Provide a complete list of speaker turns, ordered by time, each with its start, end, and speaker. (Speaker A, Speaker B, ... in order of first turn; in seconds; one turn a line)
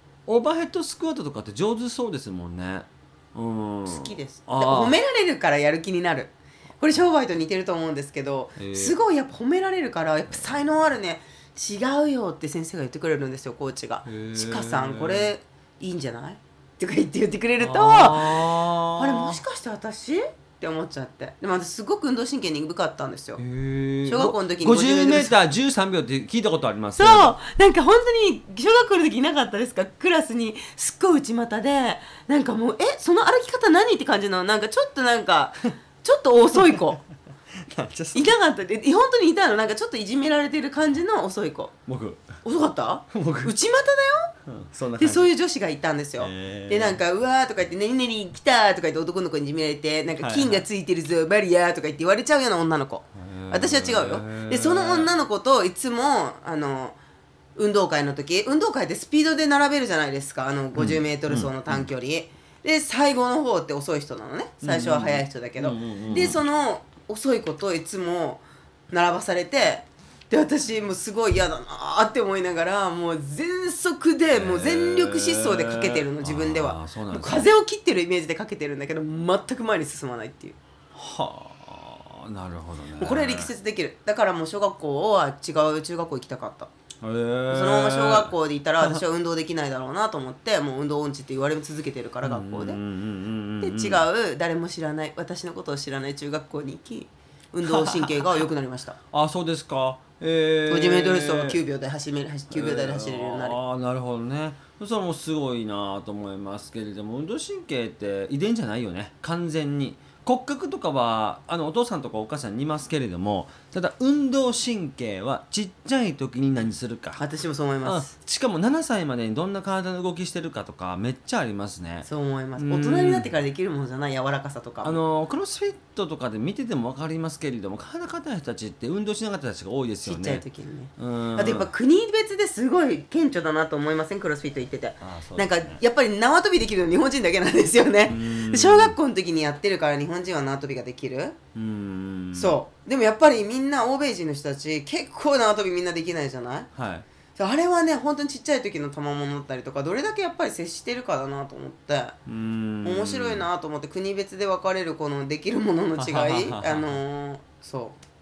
Speaker A: 0.3-5.0
Speaker B: 3.9-23.4
Speaker A: 8.6-8.9
Speaker A: 14.0-15.3
Speaker A: 17.6-19.4
Speaker A: 23.4-27.4
Speaker B: 24.1-25.4
Speaker B: 27.0-37.0
Speaker A: 37.6-38.3
Speaker B: 38.1-41.7
Speaker A: 41.9-42.4
Speaker B: 42.4-44.3
Speaker A: 43.1-43.5
Speaker A: 44.5-45.3
Speaker B: 45.0-57.0
Speaker A: 46.2-47.0
Speaker A: 50.2-50.6
Speaker A: 53.1-55.1
Speaker B: 57.5-80.6
Speaker A: 60.7-61.9
Speaker A: 64.6-66.4
Speaker A: 74.3-77.5
Speaker A: 80.9-83.5
Speaker B: 83.0-86.7
Speaker A: 87.0-89.0
Speaker B: 87.5-92.8
Speaker A: 92.2-94.0
Speaker B: 93.6-99.0
Speaker A: 97.6-98.4
Speaker A: 99.1-101.6
Speaker B: 100.7-103.6
Speaker A: 102.5-117.2
Speaker B: 117.2-118.1
Speaker A: 117.8-123.3
Speaker B: 122.0-125.0
Speaker A: 124.8-130.4
Speaker B: 130.0-141.4
Speaker A: 131.0-131.7
Speaker A: 135.0-135.8
Speaker A: 138.1-139.0
Speaker A: 141.5-142.6
Speaker B: 142.3-146.7
Speaker A: 146.7-147.1
Speaker B: 147.3-152.2
Speaker A: 152.2-153.5
Speaker B: 152.8-158.0
Speaker A: 156.0-157.0